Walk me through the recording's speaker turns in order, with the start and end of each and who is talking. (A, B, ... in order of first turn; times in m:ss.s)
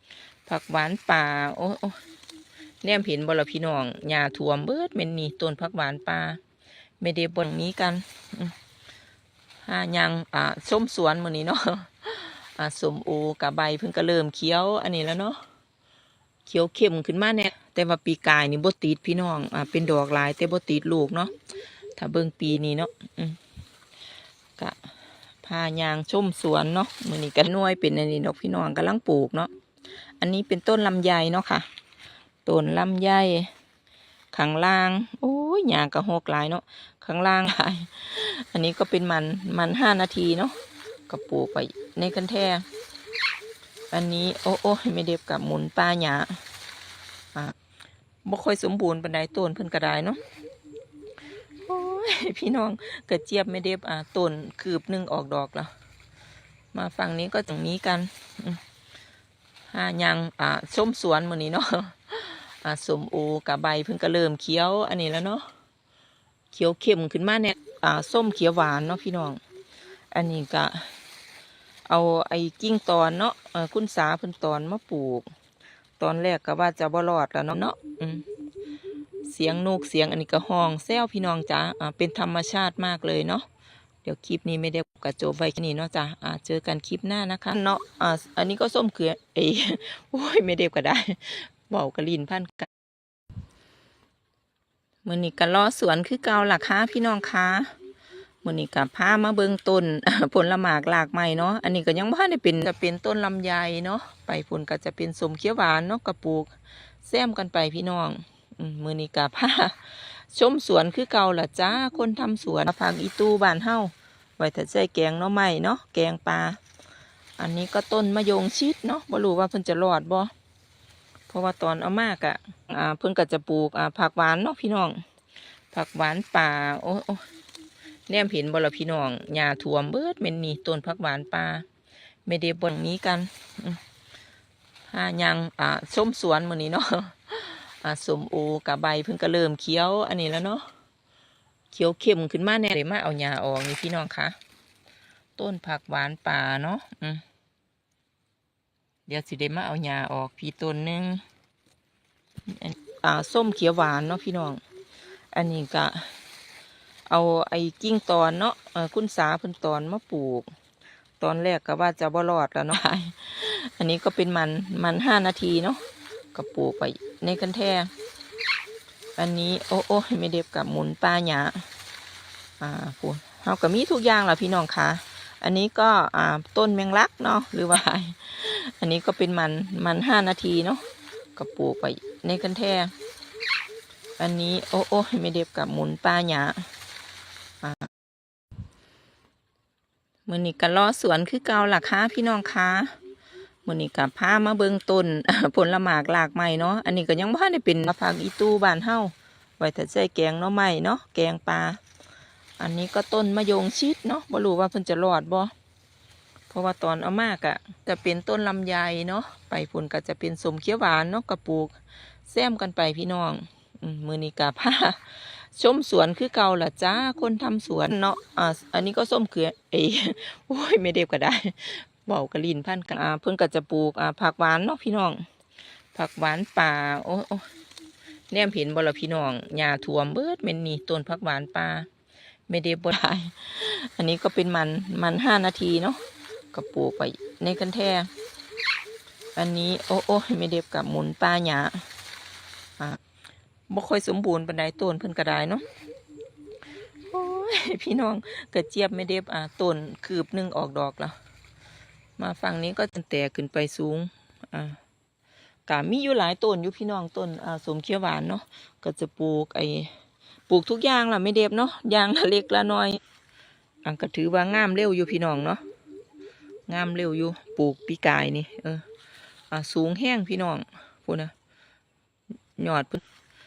0:00.5-0:02.0 A
0:02.8-0:06.4 A
0:07.0-0:08.5 A
0:09.6-0:15.4 A
0:16.5-0:21.3 A
0:22.0-0:23.4 A
0:24.6-0:24.9 A
0:25.4-0:29.5 A
0:30.2-0:31.7 A
0:32.5-0:33.5 A
0:34.3-0:40.6 A
0:41.1-0:42.6 A
0:43.9-0:46.4 A
0:48.2-0:50.2 A
0:51.7-0:55.7 A
0:56.7-0:58.6 A
0:59.7-1:05.5 A
1:06.5-1:09.4 A
1:10.1-1:10.9 A
1:11.9-1:15.3 A
1:16.0-1:18.3 A
1:19.2-1:23.5 A
1:24.0-1:32.7 A
1:35.0-1:37.7 A
1:38.4-1:56.6 A
1:57.4-2:00.3 A
2:01.3-2:05.0 A
2:05.7-2:07.2 A
2:08.1-2:11.7 A
2:12.3-2:13.8 A
2:14.9-2:20.7 A
2:21.7-2:24.4 A
2:25.4-2:27.2 A
2:29.1-2:31.2 A
2:32.5-2:34.6 A
2:35.3-2:36.1 A
2:37.1-2:40.5 A
2:41.2-2:45.8 A
2:46.3-2:47.9 A
2:49.2-2:51.7 A
2:52.6-3:00.8 A
3:01.4-3:02.9 A
3:04.2-3:06.7 A
3:07.6-3:07.9 A
3:10.3-3:13.0 A
3:13.6-3:21.8 A
3:22.6-3:25.5 A
3:26.5-3:31.8 A
3:32.3-3:45.2 A
3:45.9-3:47.5 A
3:48.3-3:51.9 A
3:52.5-3:56.0 A
3:56.5-3:58.1 A
3:59.4-4:01.8 A
4:03.7-4:05.6 A
4:07.1-4:11.2 A
4:12.2-4:14.8 A
4:15.7-4:19.9 A
4:20.5-4:23.0 A
4:23.8-4:25.6 A
4:26.7-4:28.8 A
4:29.5-4:31.3 A
4:32.6-4:33.0 A